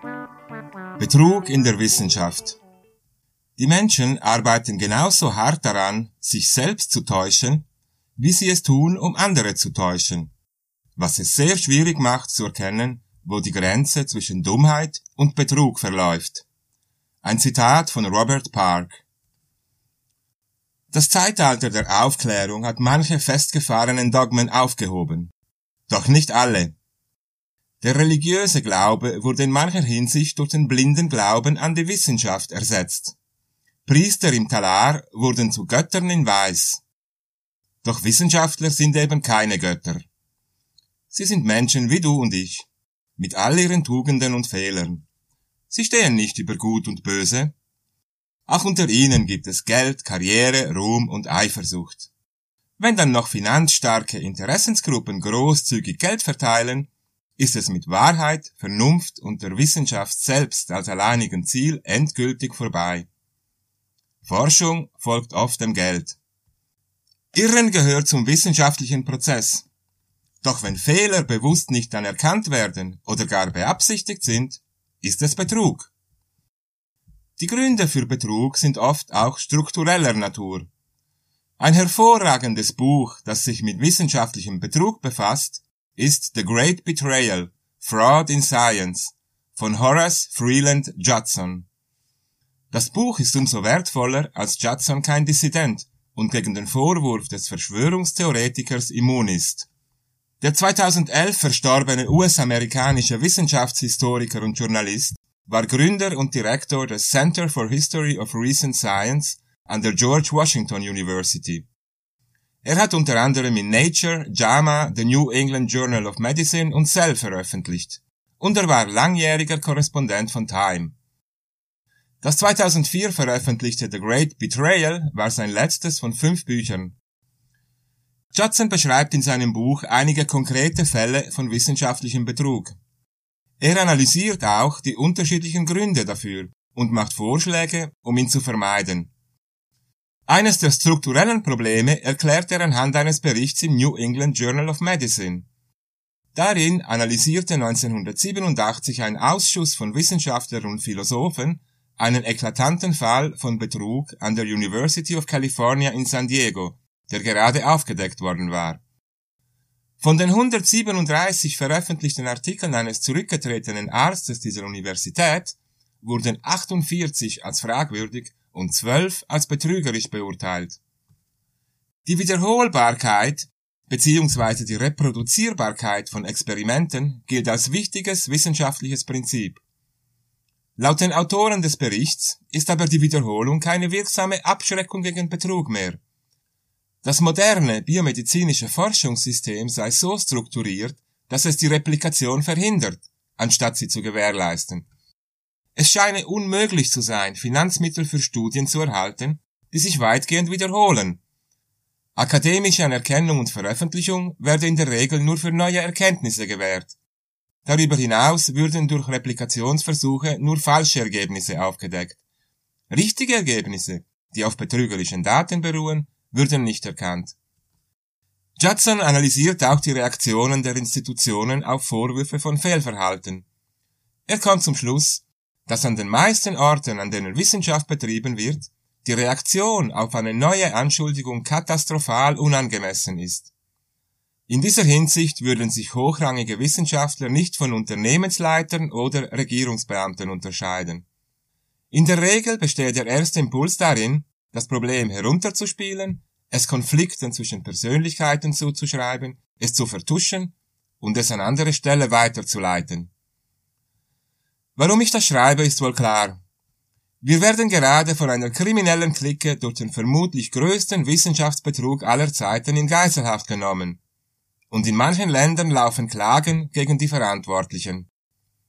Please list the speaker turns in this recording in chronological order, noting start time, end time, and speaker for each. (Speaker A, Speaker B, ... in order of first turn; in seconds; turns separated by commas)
Speaker A: 1.0-2.6, Speaker A: 3.6-7.6, Speaker A: 8.2-10.3, Speaker A: 10.9-16.4, Speaker A: 17.2-19.0, Speaker A: 20.9-25.3, Speaker A: 25.9-26.7, Speaker A: 27.8-33.1, Speaker A: 33.8-36.8, Speaker A: 37.8-40.0, Speaker A: 41.1-45.0, Speaker A: 45.7-47.5, Speaker A: 48.5-52.1, Speaker A: 52.8-63.1, Speaker A: 64.2-66.2, Speaker A: 67.3-69.7, Speaker A: 70.4-75.9, Speaker A: 77.4-80.7, Speaker A: 81.6-91.7, Speaker A: 92.7-99.7, Speaker A: 100.4-111.7, Speaker A: 112.6-120.9, Speaker A: 122.2-127.0, Speaker A: 128.3-132.8, Speaker A: 133.6-139.1, Speaker A: 140.3-145.5, Speaker A: 146.3-158.8, Speaker A: 160.0-170.8, Speaker A: 172.0-179.6, Speaker A: 180.8-186.0, Speaker A: 187.0-194.9, Speaker A: 195.7-201.2, Speaker A: 202.1-207.0, Speaker A: 207.6-212.2, Speaker A: 212.9-217.3, Speaker A: 218.6-223.4, Speaker A: 224.3-233.5, Speaker A: 234.5-241.0, Speaker A: 241.9-253.1, Speaker A: 254.8-256.4, Speaker A: 257.2-264.0, Speaker A: 264.7-268.1